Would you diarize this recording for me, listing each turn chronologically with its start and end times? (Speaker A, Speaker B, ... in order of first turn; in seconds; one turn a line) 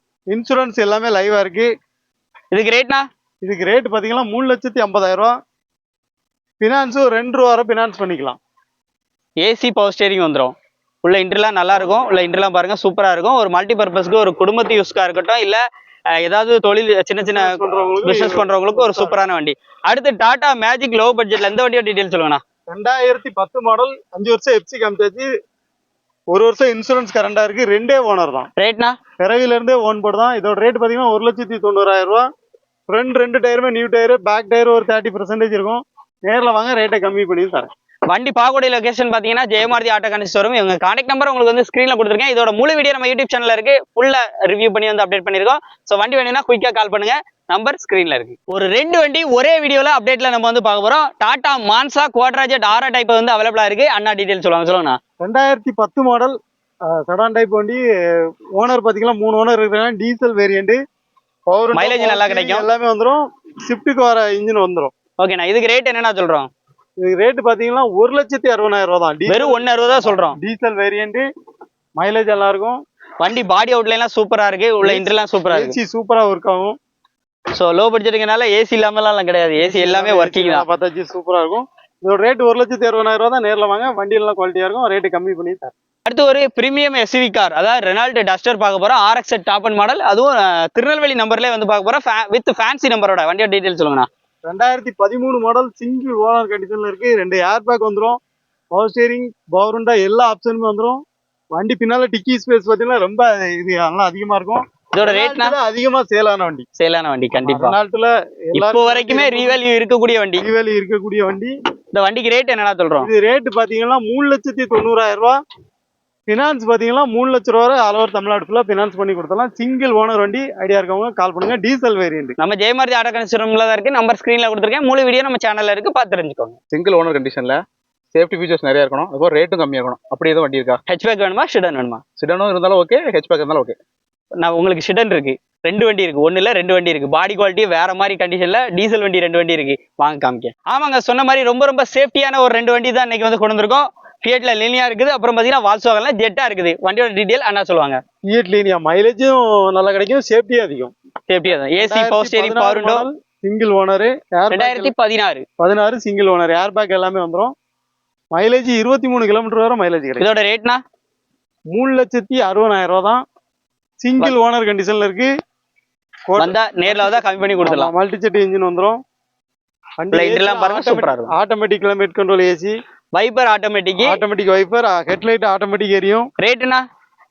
Speaker A: 0.3-1.7
Speaker B: 2.5-3.0
Speaker A: 3.4-5.3
Speaker A: 6.6-8.4
Speaker B: 9.4-15.6
Speaker B: 16.2-22.4
Speaker A: 17.2-19.2
Speaker A: 22.7-25.3
Speaker A: 26.3-28.5
Speaker B: 28.6-28.9
Speaker A: 29.2-32.2
Speaker A: 32.9-37.7
Speaker B: 38.1-55.0
Speaker A: 55.2-56.4
Speaker A: 57.0-57.8
Speaker A: 58.5-60.8
Speaker A: 61.5-64.9
Speaker B: 61.7-62.6
Speaker B: 65.2-66.5
Speaker A: 67.0-71.2
Speaker B: 69.3-70.4
Speaker A: 72.0-72.8
Speaker B: 73.2-75.8
Speaker A: 74.8-76.8
Speaker B: 77.5-80.7
Speaker A: 79.6-85.7
Speaker B: 86.1-94.1
Speaker A: 94.5-98.2
Speaker A: 98.8-101.0
Speaker A: 101.5-106.7
Speaker B: 104.9-105.6
Speaker B: 106.8-107.7
Speaker A: 107.4-109.6
Speaker B: 108.5-110.4
Speaker A: 110.4-111.5
Speaker B: 111.9-113.1
Speaker A: 113.0-115.4
Speaker A: 116.3-122.4
Speaker B: 122.4-126.6
Speaker C: 126.7-127.6
Speaker C: 128.1-130.8
Speaker B: 130.9-132.0
Speaker C: 132.2-133.8
Speaker B: 134.4-148.0
Speaker A: 148.3-150.9
Speaker B: 151.3-153.1
Speaker A: 151.8-154.9
Speaker B: 154.5-155.4
Speaker A: 155.6-157.5
Speaker A: 158.3-160.3
Speaker B: 160.2-160.8
Speaker A: 161.7-163.2
Speaker A: 164.0-165.3
Speaker A: 166.3-169.0
Speaker B: 166.4-167.9
Speaker A: 170.0-172.7
Speaker B: 170.1-171.3
Speaker B: 173.2-174.2
Speaker A: 174.0-176.3
Speaker B: 176.4-176.8